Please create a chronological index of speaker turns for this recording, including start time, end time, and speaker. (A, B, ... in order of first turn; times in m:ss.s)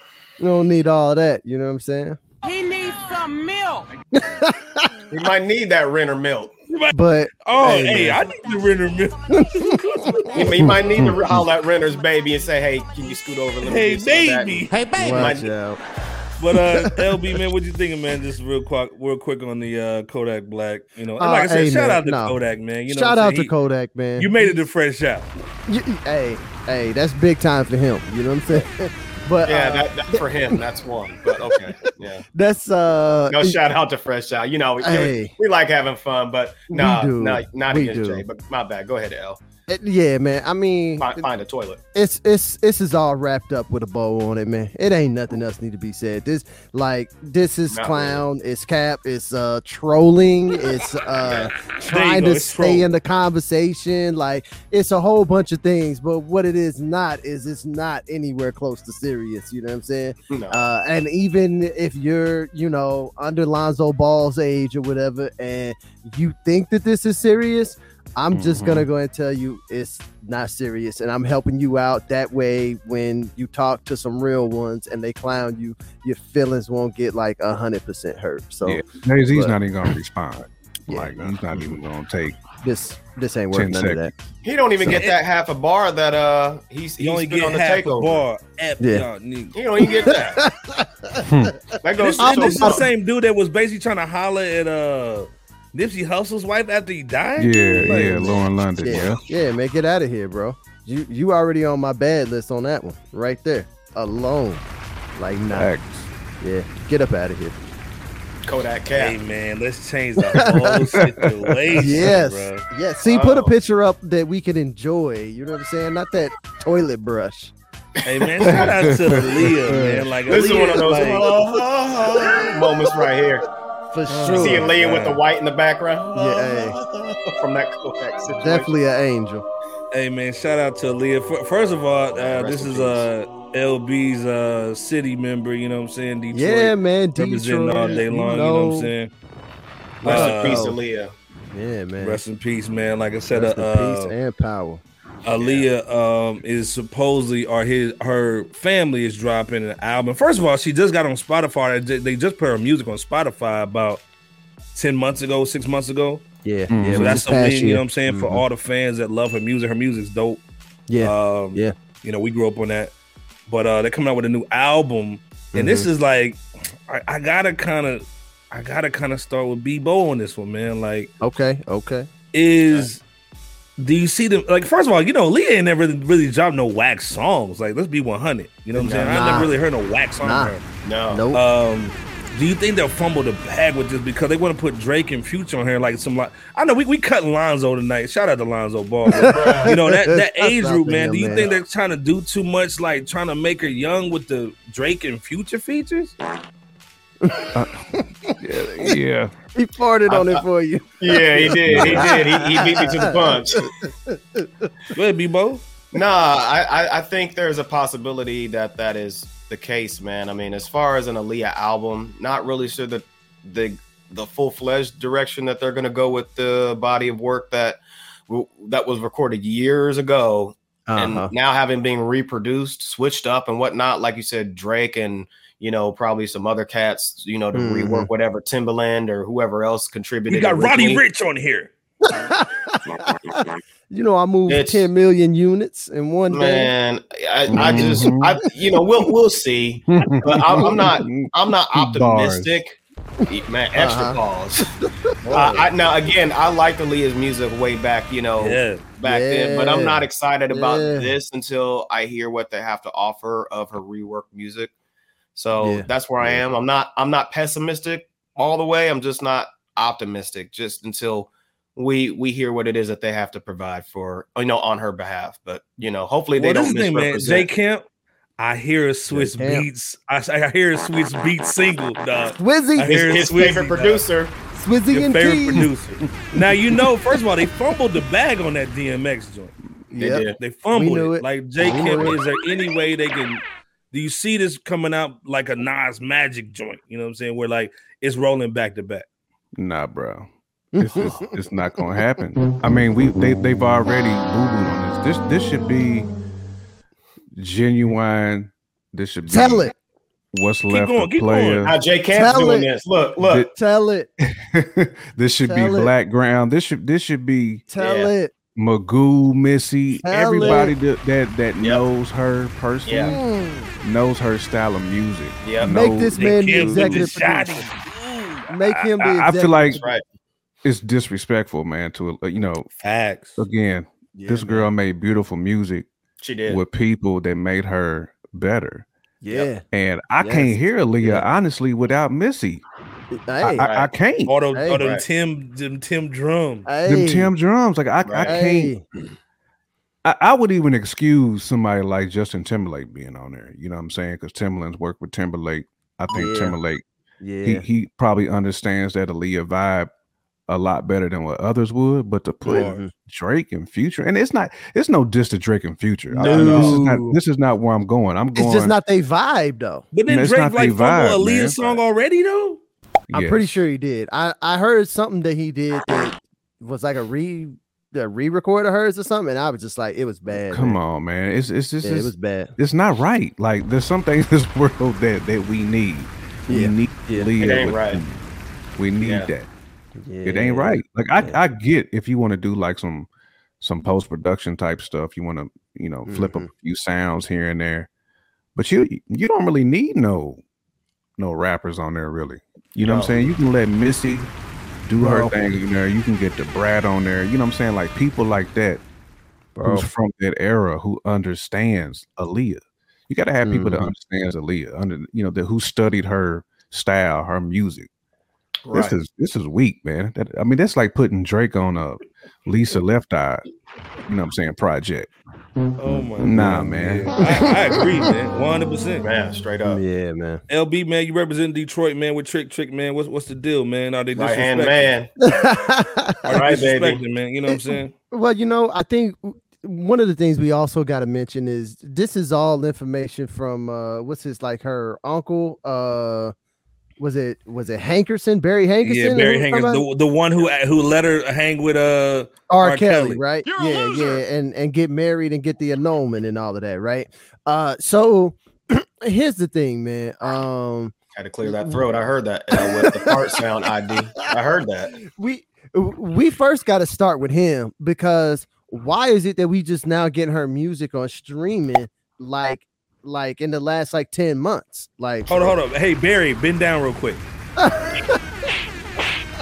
0:00.4-0:02.2 A
0:02.4-0:03.9 B
0:04.1-0:04.9 A
0:05.1-0:06.5 C
0:06.7-0:10.5 D
0:06.9-0:08.2 A
0:09.4-0:10.6 A
0:10.3-0:15.5 C
0:10.6-0:11.4 E
0:13.6-0:14.8 D
0:14.7-0:15.3 B
0:15.0-0:15.8 A
0:16.4-0:23.5 D
0:21.2-0:22.4 A
0:22.9-0:24.6 A
0:24.2-0:25.3 D
0:25.7-0:30.6 A
0:29.4-0:32.2 C
0:31.3-0:31.7 A
0:32.3-0:33.6 A
0:33.3-0:39.4 C
0:34.8-0:35.3 A
0:36.7-0:38.2 A
0:39.7-0:41.2 A
0:41.0-0:41.8 C
0:41.9-1:19.6 A
0:47.7-0:48.2 C
0:51.2-0:51.5 C
0:51.8-0:52.9 D
1:00.3-1:00.6 C
1:08.3-1:08.9 E
1:18.6-1:22.4 E
1:20.9-1:21.3 A
1:22.6-1:24.1 A
1:23.5-1:24.1 E
1:24.4-1:28.2 C
1:24.8-1:25.2 D
1:27.0-1:30.1 D
1:28.8-1:29.1 A
1:29.5-1:30.4 C
1:29.8-1:32.8 A
1:31.2-1:31.5 E
1:31.8-1:32.9 C
1:32.0-1:38.3 D
1:37.4-1:39.2 E
1:37.7-1:44.6 A
1:45.2-1:45.7 A
1:45.5-1:46.1 E
1:46.4-1:47.6 A
1:48.4-1:49.2 C
1:48.9-1:52.6 D
1:50.3-1:50.8 A
1:51.0-1:51.8 E
1:51.8-1:57.5 A
1:53.1-1:53.5 C
1:58.0-2:01.3 D
1:58.1-1:58.7 C
1:58.5-1:59.8 E
1:59.7-2:00.0 A
2:00.2-2:03.4 C
2:02.2-2:02.9 A
2:03.9-2:04.7 A
2:04.1-2:05.2 D
2:04.2-2:08.7 C
2:06.1-2:06.8 A
2:08.4-2:09.4 A
2:09.9-2:19.1 D
2:12.2-2:13.1 C
2:16.3-2:18.9 A
2:20.0-2:20.6 D
2:20.0-2:20.8 A
2:20.0-2:21.1 C
2:21.5-2:22.2 A
2:22.0-2:24.1 D
2:23.3-2:24.8 A
2:25.2-2:34.0 D
2:25.4-2:25.7 C
2:34.7-2:36.2 D
2:36.4-2:38.4 A
2:36.7-2:37.2 E
2:36.9-2:40.4 D
2:40.9-2:41.7 A
2:41.0-2:42.9 D
2:43.5-2:51.1 D
2:45.5-2:45.9 A
2:51.2-2:52.1 A
2:52.3-2:53.0 D
2:53.8-3:00.6 D
2:58.8-2:59.5 A
2:58.8-2:59.1 C
3:00.2-3:00.5 A
3:00.8-3:01.2 C
3:01.1-3:01.4 A
3:01.3-3:16.1 D
3:09.1-3:11.5 A
3:09.3-3:09.7 C
3:17.2-3:19.0 A
3:17.5-3:17.8 E
3:18.4-3:19.3 E
3:19.5-3:24.7 A
3:20.1-3:20.4 C
3:21.0-3:23.7 C
3:21.6-3:22.2 E
3:24.9-3:25.6 D
3:25.9-3:51.0 C
3:40.9-3:41.3 A
3:47.5-3:48.1 A
3:50.3-3:51.7 D
3:52.0-3:56.7 A
3:54.5-3:54.9 C
3:56.3-4:02.8 C
3:57.5-3:58.3 E
3:57.6-3:58.0 A
3:59.9-4:02.6 E
4:00.6-4:00.8 A
4:03.3-4:04.7 C
4:03.7-4:04.2 A
4:05.2-4:05.6 D
4:05.3-4:14.7 C
4:08.4-4:08.8 D
4:09.0-4:11.1 A
4:15.3-4:27.5 C
4:15.6-4:15.8 A
4:26.4-4:27.8 D
4:28.4-4:34.0 D
4:29.1-4:29.7 A
4:32.4-4:32.9 A
4:32.8-4:34.4 C
4:34.5-4:35.7 A
4:34.9-4:39.5 D
4:39.9-4:42.2 A
4:39.9-4:40.4 C
4:40.4-4:49.0 D
4:49.6-4:56.1 E
4:50.7-4:51.4 A
4:57.4-4:59.7 E
4:59.3-4:59.7 A
5:00.3-5:01.8 E
5:00.7-5:01.7 D
5:01.6-5:03.5 C
5:02.1-5:02.7 A
5:03.2-5:03.5 E
5:03.5-5:04.1 A
5:04.2-5:07.6 E
5:05.4-5:05.9 A
5:07.7-5:08.3 A
5:07.8-5:08.1 C
5:08.6-5:13.2 E
5:10.0-5:10.7 A
5:12.8-5:13.2 C
5:13.0-5:13.7 A
5:13.8-5:17.1 E
5:15.4-5:15.7 C
5:15.6-5:17.7 A
5:16.2-5:18.8 D
5:18.5-5:19.8 A
5:19.0-5:19.8 E
5:19.7-5:20.0 C
5:20.6-5:22.7 E
5:22.8-5:23.4 D
5:23.4-5:25.9 E
5:24.1-5:24.7 A
5:26.2-5:26.6 C
5:26.4-5:28.9 E
5:29.2-5:29.6 A
5:29.7-5:32.6 E
5:30.2-5:31.3 A
5:33.1-5:33.6 A
5:33.4-5:34.3 E
5:33.6-5:33.9 C
5:34.2-5:36.7 D
5:34.5-5:34.8 A
5:34.7-5:35.0 C
5:36.6-5:37.3 A
5:36.8-5:38.7 E
5:38.0-5:38.3 C
5:38.2-5:38.8 A
5:40.0-5:46.8 E
5:46.1-5:46.6 A
5:47.2-5:47.6 A
5:47.4-5:49.9 E
5:50.5-5:58.8 E
5:52.4-5:52.9 A
5:52.5-5:52.8 D
5:56.1-5:56.8 C
5:56.2-5:57.2 A
5:58.3-5:59.9 A
5:59.9-6:02.6 D
6:00.1-6:01.8 E
6:03.1-6:03.5 E
6:03.1-6:10.8 A
6:10.3-6:18.2 E
6:11.8-6:12.5 A
6:16.5-6:17.3 A
6:17.4-6:18.0 C
6:18.8-6:19.5 E
6:20.0-6:21.4 A
6:20.2-6:23.1 E
6:23.6-6:27.9 E
6:26.0-6:26.5 A
6:28.5-6:30.4 E
6:31.2-6:34.3 E
6:32.8-6:33.3 C
6:34.8-6:38.8 E
6:35.0-6:35.4 A
6:39.6-6:39.9 A
6:39.6-6:47.9 E
6:43.4-6:43.9 A
6:48.7-6:49.0 C
6:48.7-6:53.4 E
6:54.1-6:55.1 E
6:55.8-6:59.0 D
6:56.2-6:57.1 E
6:59.0-6:59.8 C
6:59.6-7:00.4 A
7:00.5-7:04.9 D
7:04.1-7:05.1 C
7:05.2-7:06.4 A
7:06.2-7:07.9 D
7:06.3-7:07.0 C
7:07.5-7:16.3 A
7:17.0-7:19.8 A
7:18.8-7:23.2 D
7:22.5-7:30.9 A
7:23.6-7:24.2 B
7:31.1-7:35.0 C
7:31.4-7:31.8 A
7:32.5-7:33.4 A
7:35.0-7:45.5 A
7:45.3-7:47.2 D
7:47.6-7:48.2 A